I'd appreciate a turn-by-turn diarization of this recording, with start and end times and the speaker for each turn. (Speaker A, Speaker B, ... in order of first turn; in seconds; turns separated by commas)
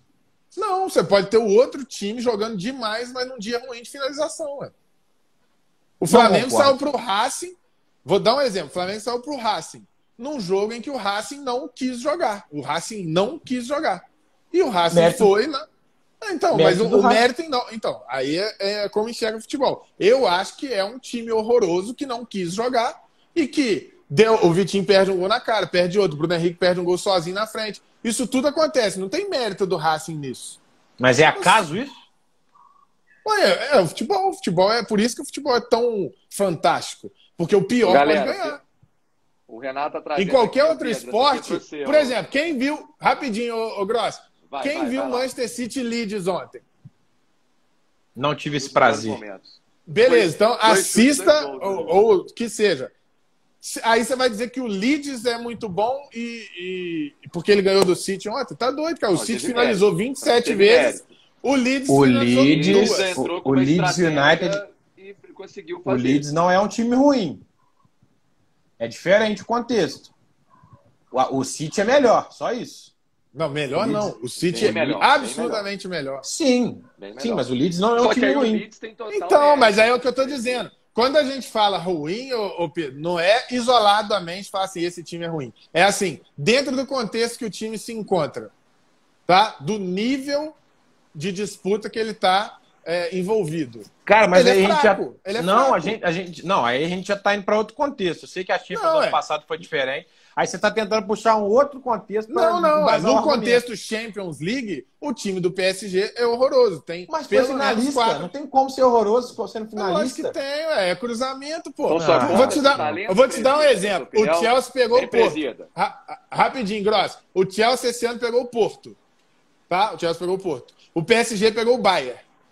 Speaker A: 0.5-4.7, Speaker A: 6.0-15.7, Speaker B: 6.1-6.8, Speaker B: 14.9-15.3, Speaker A: 16.2-30.6, Speaker B: 16.5-17.2, Speaker B: 31.0-32.0, Speaker A: 31.4-31.6, Speaker A: 33.2-38.6, Speaker C: 37.8-38.6, Speaker C: 39.5-42.2, Speaker A: 40.1-46.6, Speaker C: 44.5-45.3, Speaker B: 48.1-49.2, Speaker C: 48.5-52.0, Speaker A: 49.9-52.9, Speaker A: 53.6-63.1, Speaker C: 59.1-61.1, Speaker B: 61.9-64.6, Speaker C: 62.5-66.3, Speaker B: 65.8-67.4, Speaker B: 68.8-70.1, Speaker B: 71.1-72.9, Speaker A: 73.3-76.3, Speaker B: 73.7-74.8, Speaker C: 74.4-75.6, Speaker B: 76.2-78.6, Speaker C: 77.0-80.7, Speaker A: 79.1-88.5, Speaker A: 89.3-90.6, Speaker A: 91.1-96.0, Speaker B: 94.1-103.6, Speaker A: 98.7-99.2, Speaker A: 102.3-108.3, Speaker B: 107.1-110.4, Speaker A: 109.8-119.0, Speaker C: 111.9-115.7, Speaker B: 112.0-113.0, Speaker A: 119.7-122.2